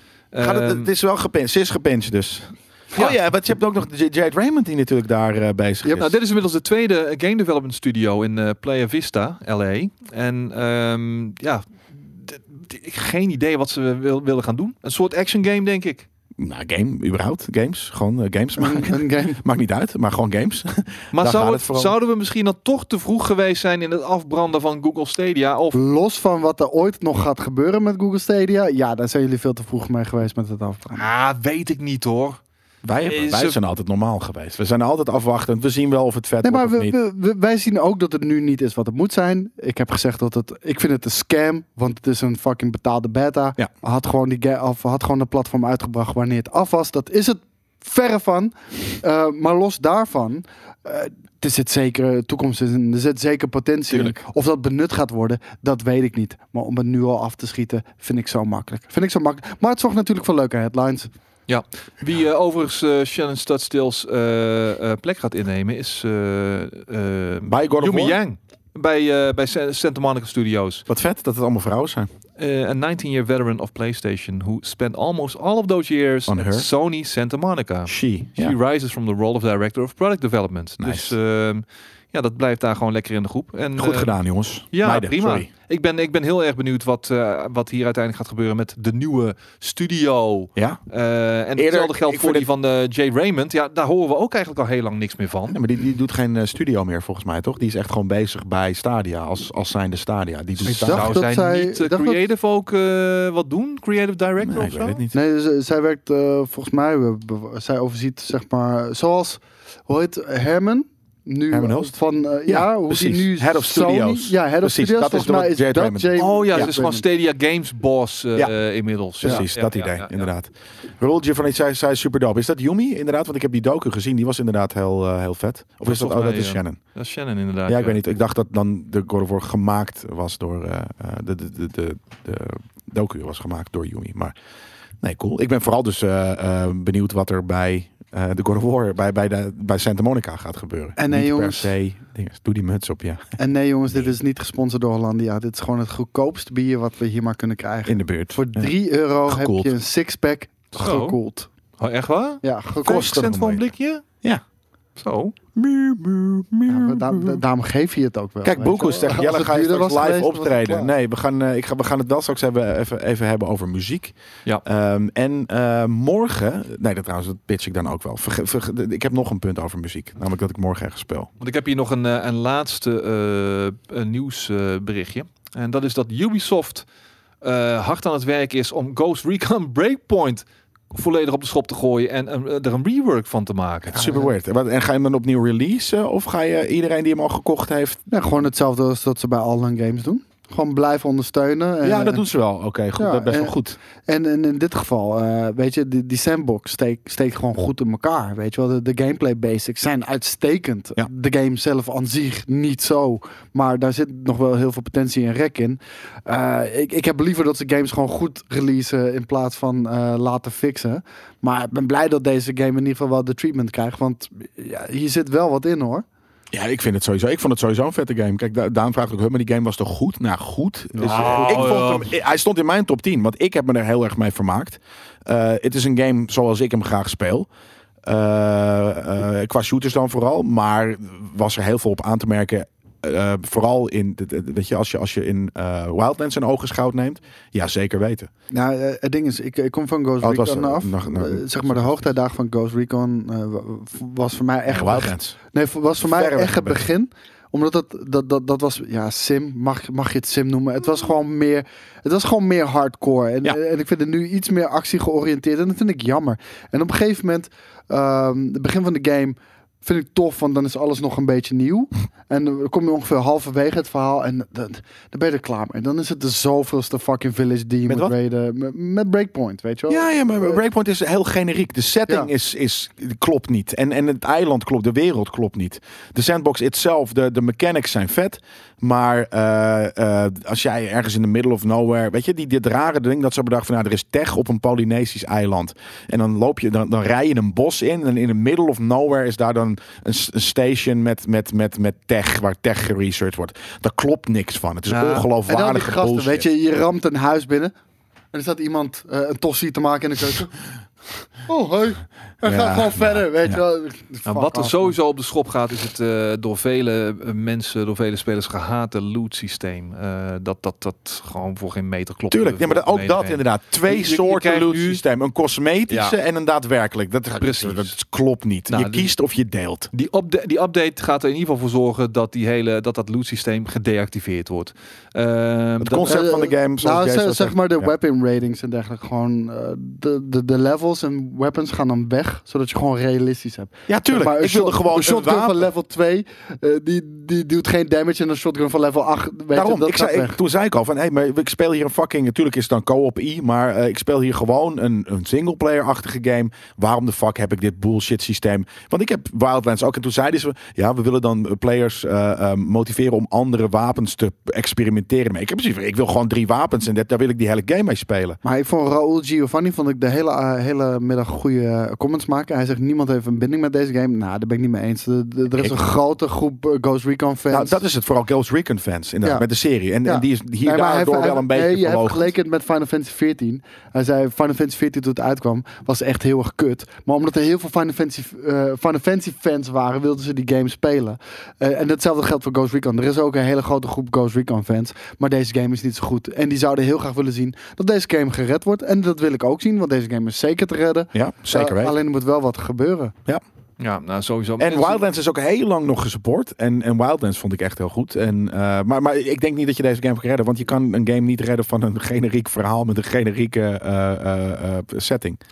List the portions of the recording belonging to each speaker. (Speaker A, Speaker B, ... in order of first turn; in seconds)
Speaker A: 0.3-0.9, 5.8-16.1, 21.1-25.8, 30.9-32.4, 33.0-33.6, 61.5-70.8, 72.4-84.2, 84.7-95.6, 100.6-105.0, 116.2-120.3, 125.8-128.0, 150.7-151.2, 151.8-154.0, 155.0-155.3, 171.4-176.8, 177.4-184.1, 220.9-222.1, 294.9-295.3, 304.3-315.0, 315.9-316.1, 317.4-317.9, 318.7-319.1, 319.9-326.1, 393.8-395.0
Speaker B: 0.4-6.1, 16.4-21.9, 32.8-36.9, 53.9-54.2, 67.5-68.2, 70.9-72.1, 76.3-76.7, 77.9-78.5, 80.8-81.1, 83.8-85.5, 91.5-92.5, 95.5-101.2, 104.4-105.2, 111.5-111.9, 112.5-116.7, 119.2-126.8, 127.7-134.3, 135.0-143.3, 147.8-148.7, 149.3-149.7, 152.8-153.6, 155.6-157.4, 158.4-171.3, 183.9-188.0, 191.8-193.8, 216.5-227.5, 228.0-238.3, 240.2-242.1, 244.7-245.3, 246.0-246.8, 267.9-268.1, 269.9-296.4, 302.4-303.6, 312.3-319.9, 325.8-327.9, 333.9-335.6, 339.5-358.4, 367.5-372.3, 391.1-391.9, 394.6-405.4
Speaker C: 18.6-19.4, 25.7-31.0, 36.4-61.1, 100.7-102.2, 105.1-117.0, 141.0-141.7, 143.4-151.5, 152.4-153.1, 156.7-160.9, 184.0-184.3, 188.1-192.2, 193.0-193.6, 194.1-216.0, 238.5-270.6, 295.4-297.7, 298.3-300.6, 301.4-304.9, 326.1-340.4, 358.4-367.8, 370.0-393.1